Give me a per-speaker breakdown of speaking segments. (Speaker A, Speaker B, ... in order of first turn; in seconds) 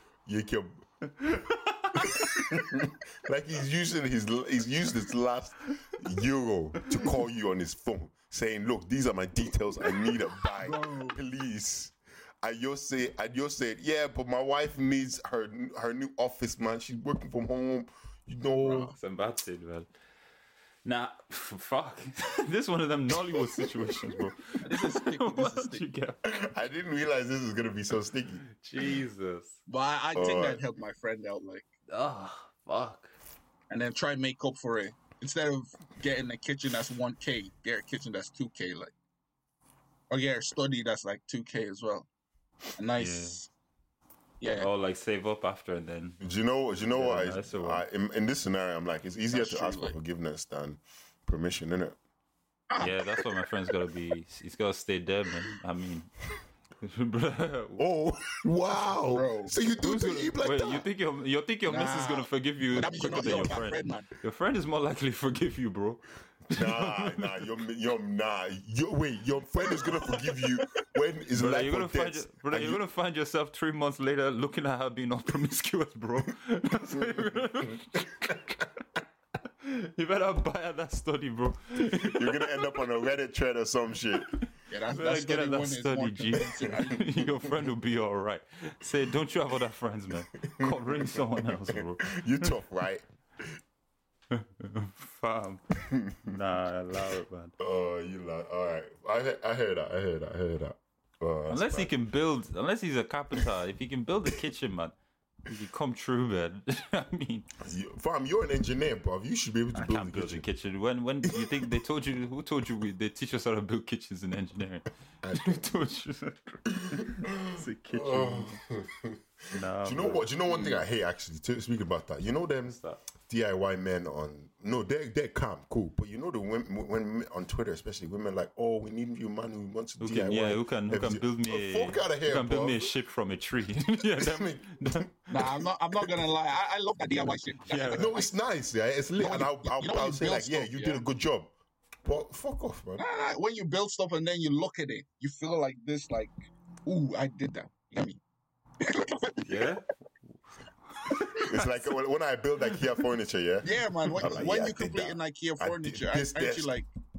Speaker A: 0.2-0.8, 2.2-18.9, 26.2-28.4, 30.1-30.6, 46.2-52.0, 57.8-60.9, 66.5-72.8, 76.9-78.3, 81.8-84.3, 90.4-93.6, 95.8-96.4, 97.6-101.9, 107.6-110.5, 111.3-111.6, 115.2-115.6, 117.2-132.9, 134.2-135.1, 137.9-141.5, 142.0-143.0, 151.4-156.7
Speaker B: 1.1-2.2, 18.9-19.9, 20.9-26.3, 28.5-29.6, 31.9-33.2, 43.0-43.4, 44.5-46.2, 46.9-47.8, 52.8-56.1, 56.8-57.8, 59.8-67.5, 71.3-78.8, 79.6-82.8, 84.3-92.5, 94.3-95.7, 96.2-97.5, 101.5-105.0, 105.5-107.5, 109.7-118.6, 119.5-120.3, 122.7-123.0, 130.0-135.3, 137.6-138.2, 149.4-149.9, 150.9-151.9
Speaker C: 10.6-11.2, 18.6-18.9, 24.6-25.8, 29.7-31.7, 33.7-38.9, 40.1-42.1, 42.8-43.5, 44.4-44.7, 49.3-50.0, 52.7-53.2, 59.1-59.6, 61.7-64.1, 84.7-87.3, 120.5-120.8, 135.3-138.2, 139.2-141.0, 143.0-146.3, 146.8-148.2, 148.8-149.6, 153.6-156.9